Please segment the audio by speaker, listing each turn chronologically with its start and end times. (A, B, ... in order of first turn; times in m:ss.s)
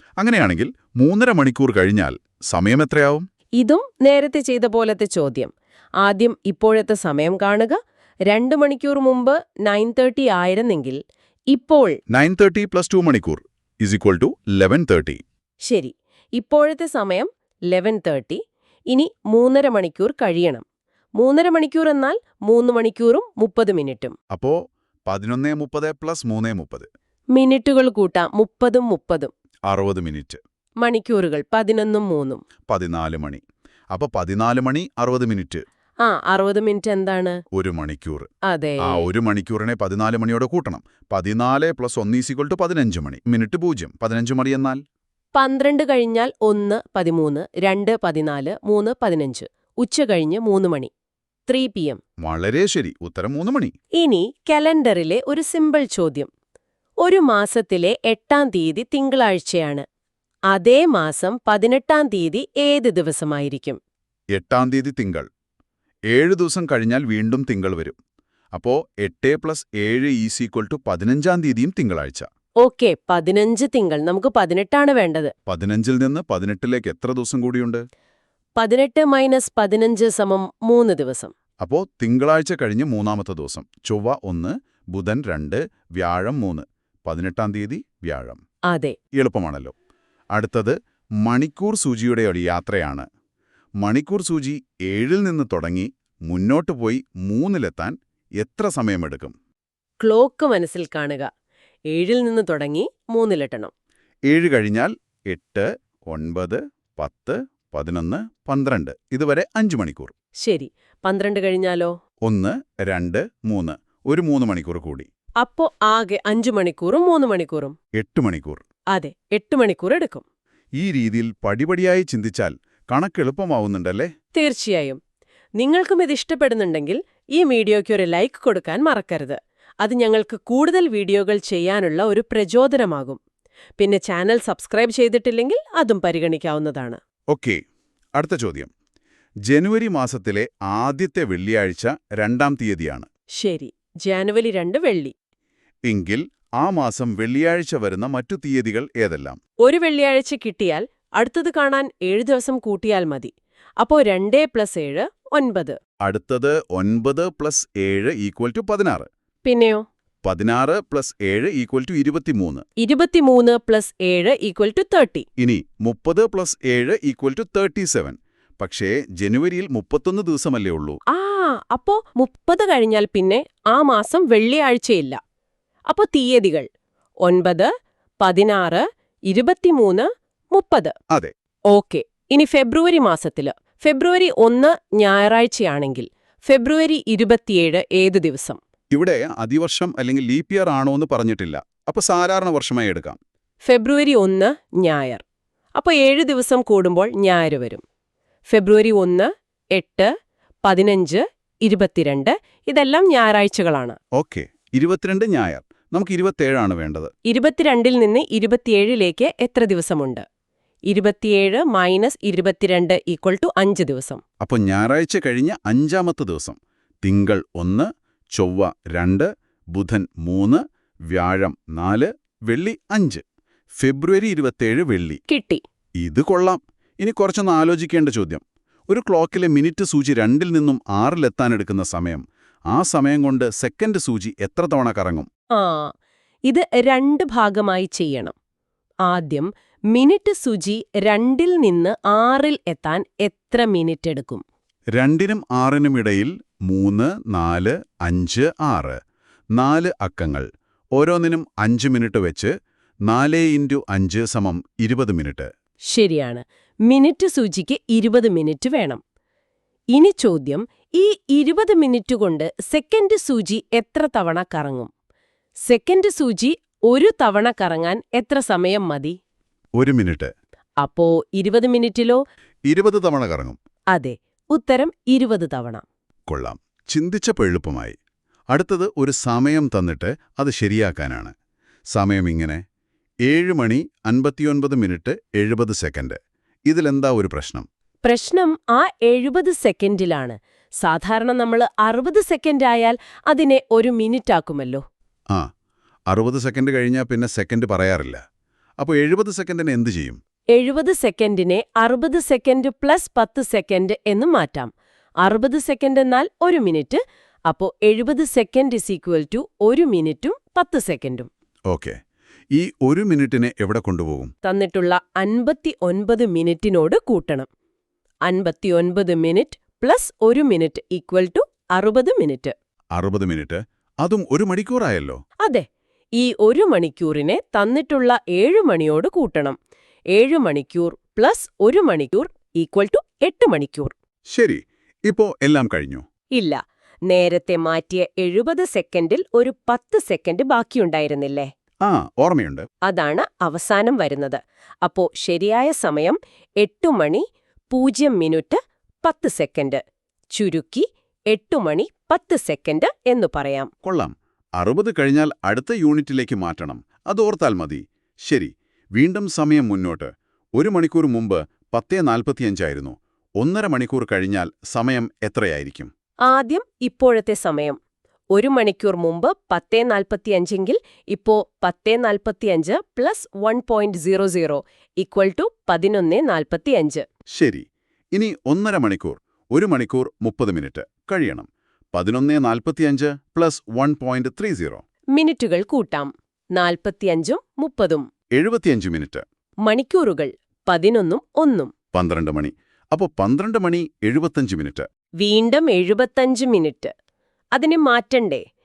0:00.2-0:03.2 A
0:03.6-0:11.0 B
0:11.5-0:12.0 B
0:12.1-0:15.2 A
0:15.6-0:20.6 B
0:21.2-0:24.2 B
0:24.3-0:26.9 A
0:27.3-0:29.3 B
0:29.7-0:30.4 A
0:30.8-0:32.4 B
0:32.7-0:33.4 A
0:33.9-0:35.6 A
0:36.0-0:37.4 B
0:37.5-0:38.3 A
0:38.4-0:39.1 B
0:38.8-0:44.8 A
0:45.3-0:50.9 B
0:51.5-0:52.0 B
0:52.2-0:53.8 A
0:54.0-0:56.3 B
0:57.0-0:59.8 B
1:00.5-1:03.8 B
1:04.3-1:05.3 A
1:06.1-1:08.0 A
1:08.5-1:12.3 A
1:12.6-1:15.3 B
1:15.5-1:17.8 A
1:18.6-1:21.3 B
1:21.6-1:28.4 A
1:28.7-1:29.0 B
1:29.1-1:29.7 A
1:30.3-1:33.1 A
1:33.8-1:39.3 A
1:40.0-1:41.3 B
1:41.9-1:43.7 B
1:44.3-1:50.1 A
1:50.4-1:52.0 B
1:52.2-1:55.1 A
1:55.4-1:57.8 B
1:58.0-1:58.6 A
1:58.9-2:00.2 B
2:00.8-2:04.1 A
2:04.3-2:05.0 B
2:05.6-2:13.2 B
2:13.8-2:17.0 B
2:17.3-2:17.6 A
2:18.2-2:18.7 A
2:19.5-2:23.1 A
2:23.3-2:25.1 B
2:25.9-2:29.4 A
2:29.6-2:35.8 B
2:36.0-2:39.1 A
2:39.4-2:39.8 B
2:40.2-2:42.6 A
2:42.8-2:45.3 B
2:45.4-2:51.0 A
2:51.1-2:55.2 B
2:55.9-2:56.7 B
2:57.2-3:00.9 B
3:01.7-3:08.6 B
3:08.9-3:13.2 A
3:13.6-3:15.2 B
3:15.8-3:17.8 B
3:18.5-3:20.1 B
3:20.6-3:24.0 B
3:24.1-3:27.1 A
3:27.2-3:30.2 B
3:30.9-3:34.2 B
3:34.4-3:43.2 A
3:43.8-3:45.2 A
3:45.3-3:45.6 B
3:46.0-3:55.3 A
3:55.5-3:55.9 B
3:56.5-3:58.4 B
3:59.0-4:04.4 B
4:04.9-4:09.0 A
4:09.6-4:12.5 A
4:13.1-4:15.5 A
4:15.9-4:19.0 B
4:19.9-4:24.9 B
4:25.7-4:29.2 B
4:29.8-4:30.3 A
4:30.8-4:32.2 B
4:32.7-4:33.6 A
4:33.9-4:35.8 B
4:36.3-4:38.0 A
4:38.5-4:41.3 A
4:41.9-4:42.6 A
4:43.3-4:47.7 A
4:48.0-4:54.8 B
4:56.1-4:58.2 A
4:58.8-5:00.2 A
5:00.5-5:04.7 B
5:05.2-5:11.3 B
5:11.7-5:12.0 A
5:12.5-5:14.3 A
5:14.4-5:17.5 B
5:18.2-5:22.6 B
5:23.0-5:25.2 A
5:25.4-5:29.6 B
5:30.1-5:33.9 B
5:34.3-5:36.0 A
5:36.3-5:41.5 B
5:41.8-5:42.7 A
5:42.8-5:53.7 B
5:53.8-6:05.9 A
6:06.2-6:07.8 B
6:08.3-6:17.1 B
6:17.3-6:24.8 A
6:25.1-6:28.1 B
6:28.4-6:29.2 A
6:29.6-6:31.7 B
6:31.9-6:34.9 A
6:35.2-6:36.9 B
6:37.5-6:38.4 B